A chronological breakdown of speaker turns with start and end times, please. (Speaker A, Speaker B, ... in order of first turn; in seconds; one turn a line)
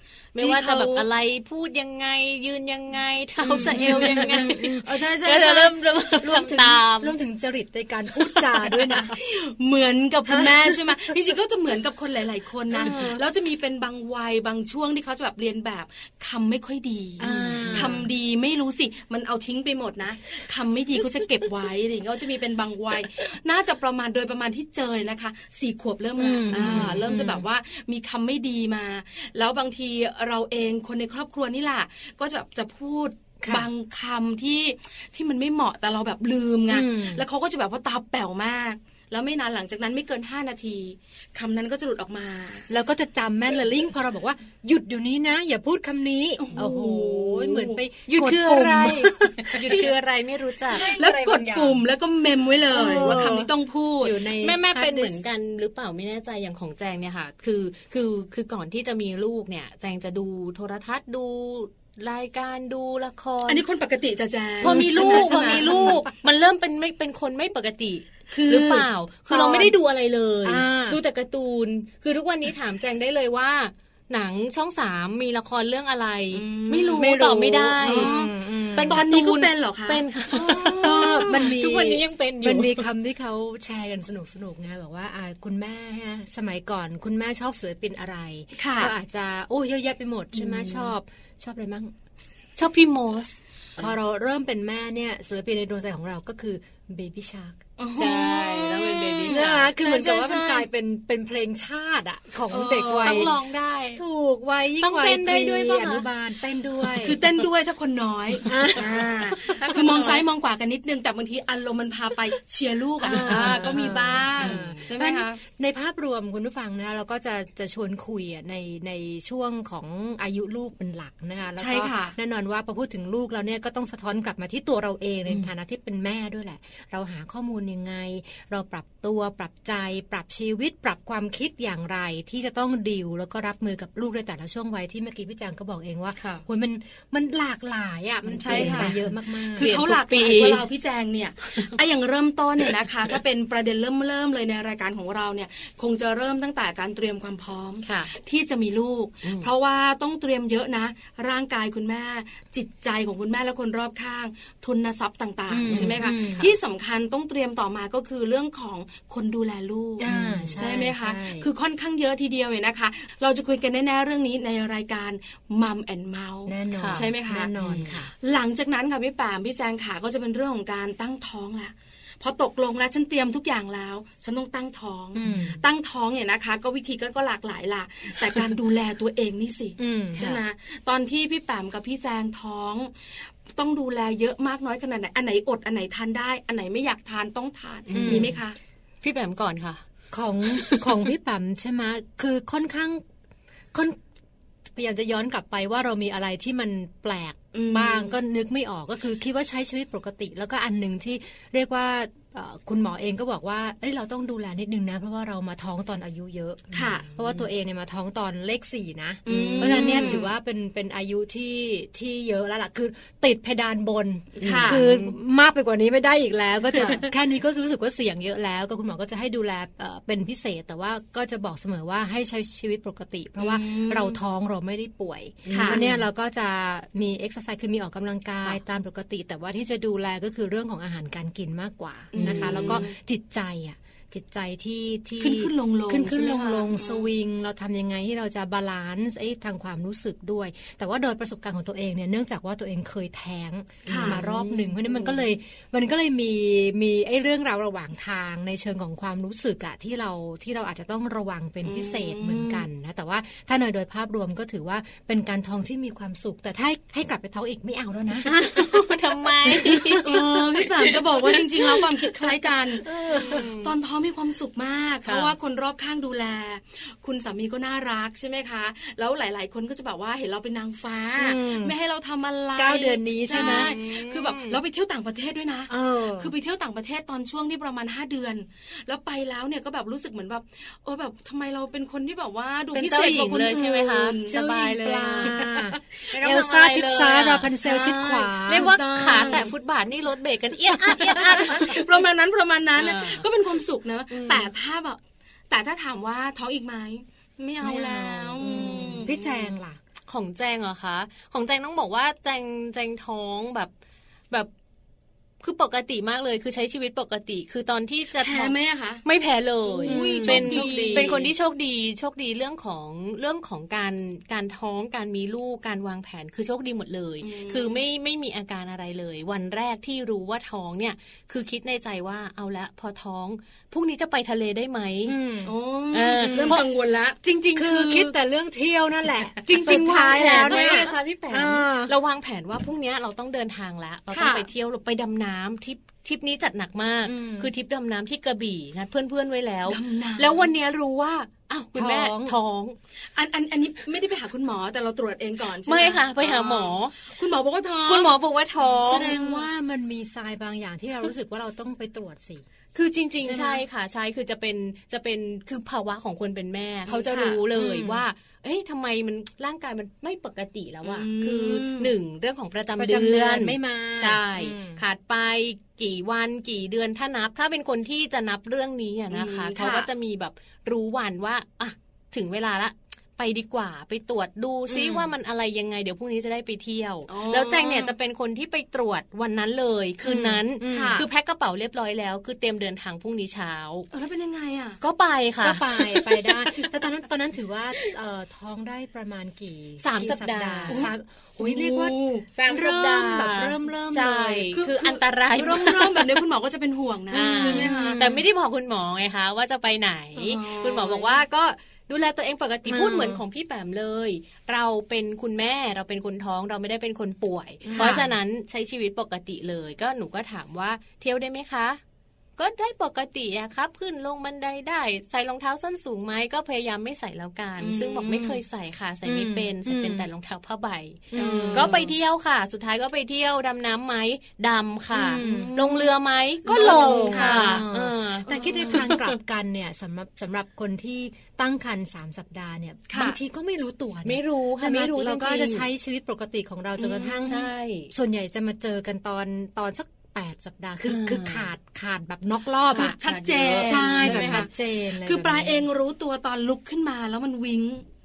Speaker A: 0.3-7.2
Speaker B: 0.3-1.1
Speaker C: 3.4-4.8
Speaker B: 3.5-5.8
Speaker C: 6.2-9.1
Speaker B: 8.4-42.7
Speaker C: 10.3-10.7
Speaker C: 12.7-13.1
Speaker A: 12.8-13.2
Speaker C: 17.2-18.1
Speaker A: 17.3-17.9
Speaker C: 26.2-27.4
Speaker A: 26.5-27.1
Speaker C: 36.7-37.2
Speaker C: 42.7-49.9
Speaker B: 46.4-47.8
Speaker A: 48.1-50.9
Speaker C: 50.7-51.8
Speaker B: 50.8-54.2
Speaker C: 52.7-53.5
Speaker C: 54.0-55.2
Speaker A: 54.4-63.6
Speaker B: 63.5-66.0
Speaker A: 64.6-78.2
Speaker C: 64.6-66.1
Speaker B: 68.3-68.8
Speaker C: 68.4-69.7
Speaker C: 70.4-71.0
Speaker B: 76.3-77.1
Speaker C: 77.0-79.0
Speaker B: 77.8-81.5
Speaker A: 78.7-82.9
Speaker C: 80.3-91.9
Speaker B: 88.6-88.9
Speaker A: 90.3-90.9
Speaker A: 92.6-93.4
Speaker C: 93.8-97.6
Speaker B: 97.8-100.7
Speaker A: 97.9-99.7
Speaker C: 99.3-103.3
Speaker B: 102.5-103.3
Speaker A: 103.0-104.0
Speaker C: 103.9-107.2
Speaker A: 104.8-106.1
Speaker B: 107.0-115.4
Speaker C: 108.4-109.3
Speaker A: 109.4-110.2
Speaker C: 113.0-139.7
Speaker A: 113.1-114.9
Speaker B: 121.6-122.2
Speaker B: 136.2-136.4
Speaker B: 138.3-139.0
Speaker A: 138.4-140.7
Speaker B: 139.5-167.5
Speaker A: 147.8-148.1
Speaker A: 149.2-149.5
Speaker C: 155.5-156.5
Speaker A: 155.7-156.4
Speaker C: 160.0-161.5
Speaker A: 160.0-160.6
Speaker C: 166.4-168.1
Speaker A: 166.7-167.1
Speaker A: 167.6-168.1
Speaker B: 168.2-188.6
Speaker C: 175.1-175.6
Speaker C: 179.8-180.2
Speaker A: 187.9-188.4
Speaker C: 187.9-188.4
Speaker A: 189.0-189.8
Speaker C: 190.1-193.0
Speaker A: 190.5-191.0
Speaker C: 194.7-258.8
Speaker B: 197.5-198.1
Speaker B: 206.7-207.1
Speaker A: 206.8-207.4
Speaker B: 209.2-210.2
Speaker A: 209.4-210.2
Speaker B: 214.4-214.8
Speaker A: 214.4-215.1
Speaker B: 223.4-224.2
Speaker A: 225.4-226.0
Speaker B: 225.5-225.8
Speaker B: 232.1-232.9
Speaker A: 232.2-232.8
Speaker B: 235.2-237.1
Speaker A: 243.8-244.8
Speaker B: 243.8-244.2
Speaker B: 251.6-252.7
Speaker A: 258.2-263.7
Speaker C: 259.5-260.0
Speaker B: 259.9-284.4
Speaker C: 263.1-263.5
Speaker A: 265.0-265.3
Speaker C: 271.2-271.7
Speaker C: 272.6-273.7
Speaker A: 273.3-274.6
Speaker C: 275.7-276.3
Speaker A: 282.7-287.6
Speaker C: 284.3-289.4
Speaker B: 287.6-289.5
Speaker A: 288.4-291.9
Speaker B: 290.9-299.2
Speaker A: 292.8-293.2
Speaker A: 294.1-294.5
Speaker C: 297.6-299.8
Speaker A: 300.1-303.7
Speaker A: 305.4-325.1
Speaker B: 308.2-309.0
Speaker B: 309.7-311.2
Speaker C: 309.8-311.3
Speaker B: 317.2-317.8
Speaker C: 325.1-325.5
Speaker B: 325.4-327.2
Speaker A: 325.9-326.7
Speaker C: 326.2-326.6
Speaker A: 327.2-328.1
Speaker C: 327.5-331.9
Speaker A: 329.4-342.8
Speaker B: 329.5-330.9
Speaker B: 334.1-334.5
Speaker C: 337.0-337.5
Speaker B: 339.7-340.5
Speaker C: 341.7-342.4
Speaker B: 343.1-349.4
Speaker A: 345.6-346.9
Speaker A: 347.9-349.1
Speaker C: 348.8-352.4
Speaker A: 352.7-383.9
Speaker C: 353.2-353.6
Speaker B: 356.9-357.4
Speaker C: 357.5-358.0
Speaker B: 360.8-361.9
Speaker C: 362.8-364.8
Speaker B: 369.1-369.9
Speaker C: 374.7-375.1
Speaker B: 377.1-377.9
Speaker C: 380.0-381.0
Speaker B: 380.6-381.1
Speaker B: 383.9-384.8
Speaker A: 384.8-386.7
Speaker C: 385.4-394.6
Speaker A: 389.8-390.9
Speaker B: 390.7-392.2
Speaker A: 392.3-396.1
Speaker B: 394.5-398.1
Speaker A: 397.1-411.8
Speaker C: 397.1-398.2
Speaker B: 400.1-401.2
Speaker C: 402.6-403.2
Speaker C: 407.6-408.1
Speaker B: 407.7-408.0
Speaker A: 412.4-429.1
Speaker B: 417.6-418.4
Speaker C: 419.0-420.1
Speaker C: 421.1-421.9
Speaker B: 421.1-421.9
Speaker C: 424.9-425.5
Speaker B: 425.2-425.9
Speaker C: 426.4-442.9
Speaker B: 426.5-427.6
Speaker B: 428.3-428.9
Speaker B: 432.9-433.2
Speaker A: 434.0-435.6
Speaker B: 436.8-437.3
Speaker A: 437.2-437.9
Speaker A: 440.8-441.5
Speaker A: 442.7-444.4
Speaker B: 442.7-447.8
Speaker C: 443.6-445.6